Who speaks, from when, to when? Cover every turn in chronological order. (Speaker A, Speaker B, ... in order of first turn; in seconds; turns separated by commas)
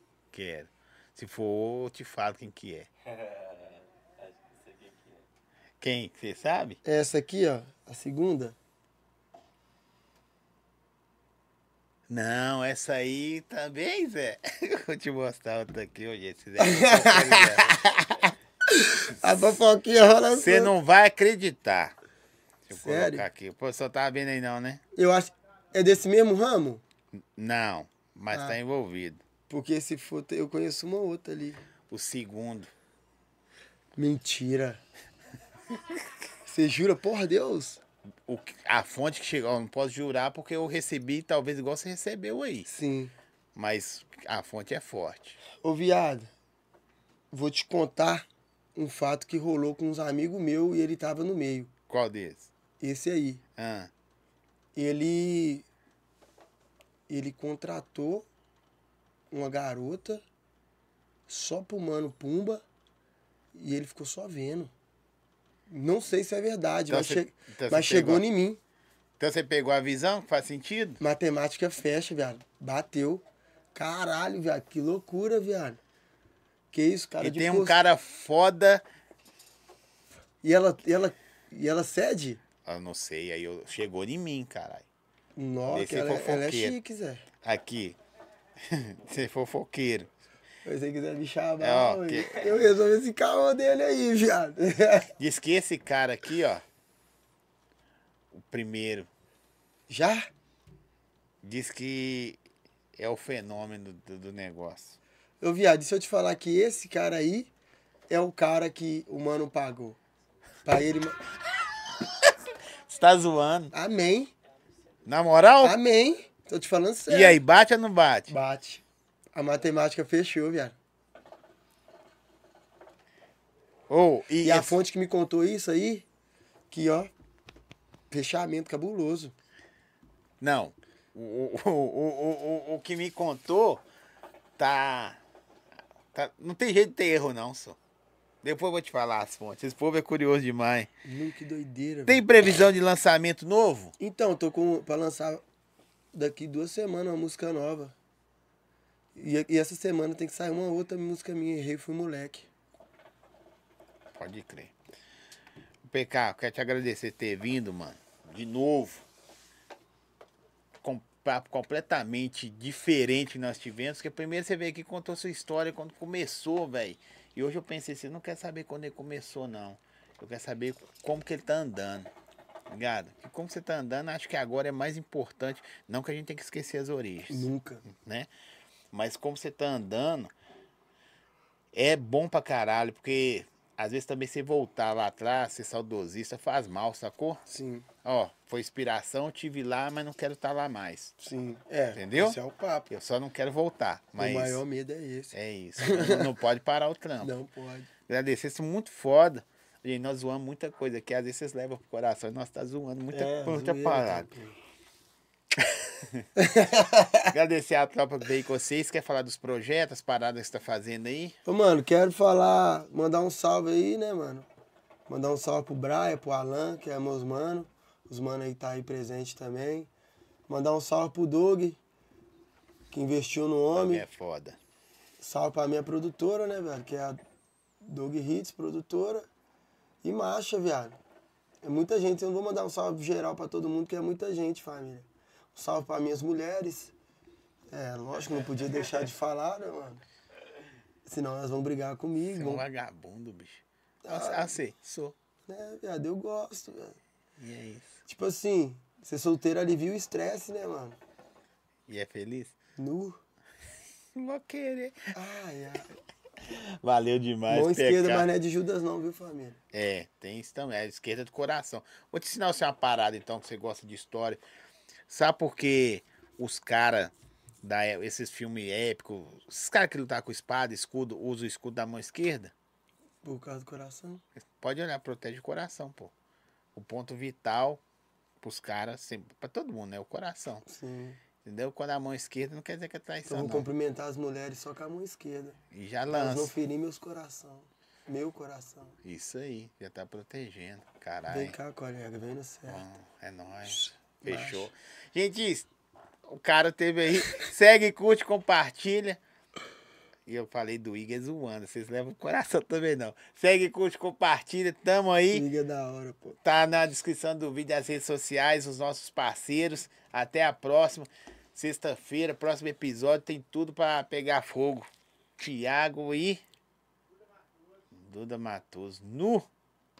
Speaker A: 0.3-2.9, Speaker B: 3.0-5.3, Speaker A: 5.8-6.8, Speaker C: 6.8-8.6, Speaker A: 12.1-18.4, Speaker C: 16.6-17.8, Speaker C: 18.7-20.7, Speaker A: 20.3-22.0, Speaker A: 22.7-24.8, Speaker C: 22.7-23.3, Speaker C: 25.0-26.8, Speaker A: 27.2-29.2, Speaker C: 28.3-28.6, Speaker C: 29.5-31.7, Speaker A: 31.9-32.7, Speaker C: 34.0-34.8, Speaker C: 36.5-37.8, Speaker A: 38.3-42.7, Speaker C: 42.7-43.1, Speaker A: 43.5-45.4, Speaker C: 45.6-46.3, Speaker C: 47.3-51.7, Speaker A: 51.9-52.5, Speaker C: 52.8-53.4, Speaker A: 53.6-53.9, Speaker C: 54.8-55.7, Speaker C: 57.1-58.3, Speaker C: 59.3-60.2, Speaker C: 61.3-62.6, Speaker C: 63.5-64.7, Speaker C: 65.7-68.6, Speaker A: 66.9-68.2, Speaker A: 69.2-71.0, Speaker C: 71.0-73.2, Speaker C: 73.8-75.8, Speaker C: 76.7-77.8, Speaker A: 77.2-78.8, Speaker C: 80.4-82.4, Speaker A: 82.7-84.9, Speaker C: 85.4-87.3, Speaker A: 85.7-86.8, Speaker A: 87.4-88.0, Speaker A: 88.6-90.1, Speaker C: 90.7-95.1, Speaker A: 91.6-92.6, Speaker A: 95.2-96.6, Speaker A: 98.3-99.1, Speaker C: 99.9-100.2, Speaker A: 101.4-102.4, Speaker A: 103.0-105.0, Speaker C: 105.4-107.5, Speaker C: 108.1-110.0, Speaker C: 110.7-111.2, Speaker A: 111.8-113.7, Speaker C: 113.7-114.3, Speaker A: 115.1-115.8, Speaker C: 115.6-117.4, Speaker A: 117.1-118.3, Speaker C: 118.3-120.8, Speaker A: 123.9-124.8, Speaker C: 124.4-126.1, Speaker C: 126.7-127.1, Speaker C: 128.1-129.3, Speaker A: 130.4-133.8, Speaker A: 134.6-135.2, Speaker A: 136.1-137.8, Speaker A: 138.4-140.9, Speaker C: 141.1-142.2, Speaker A: 142.1-143.9, Speaker C: 144.0-145.4, Speaker C: 146.1-147.9, Speaker C: 149.2-152.5, Speaker A: 154.2-154.8, Speaker A: 155.9-159.1, Speaker A: 160.8-172.1, Speaker A: 172.7-178.3, Speaker C: 177.3-177.8, Speaker A: 178.9-180.3, Speaker A: 181.7-187.4, Speaker C: 187.5-187.9, Speaker A: 188.0-191.2, Speaker C: 191.2-192.9, Speaker A: 191.9-192.4, Speaker A: 192.9-194.6, Speaker C: 194.2-196.3, Speaker A: 195.3-197.3, Speaker C: 197.2-197.9, Speaker A: 198.1-204.3, Speaker C: 203.1-204.6, Speaker A: 205.6-206.2, Speaker C: 206.4-207.3, Speaker A: 207.3-211.4, Speaker C: 211.4-214.5, Speaker C: 215.1-219.9, Speaker C: 220.5-221.8, Speaker C: 222.9-224.1, Speaker A: 223.7-224.6, Speaker C: 225.2-227.2, Speaker C: 227.8-229.3, Speaker C: 230.0-231.0, Speaker C: 231.6-236.9, Speaker C: 237.7-240.0, Speaker C: 241.1-242.6, Speaker A: 242.3-245.2, Speaker C: 244.0-244.6, Speaker C: 245.5-247.0, Speaker A: 247.4-248.0, Speaker C: 248.1-251.0, Speaker A: 251.9-252.6, Speaker C: 252.8-253.2, Speaker A: 254.1-255.1, Speaker C: 255.1-255.9, Speaker A: 256.4-258.3, Speaker C: 257.5-259.6, Speaker A: 259.7-264.4, Speaker A: 265.1-272.5, Speaker C: 273.2-274.2, Speaker A: 274.4-276.1, Speaker A: 276.7-277.8, Speaker A: 278.4-280.6, Speaker C: 280.6-281.2, Speaker A: 281.4-283.7, Speaker C: 283.3-285.6, Speaker A: 285.7-286.6, Speaker C: 286.1-289.0, Speaker A: 289.0-291.6, Speaker C: 291.3-292.9, Speaker A: 292.7-295.7, Speaker C: 294.2-294.7, Speaker A: 296.2-299.2, Speaker A: 300.3-305.5, Speaker C: 305.3-306.4, Speaker A: 306.4-316.4, Speaker A: 317.9-319.5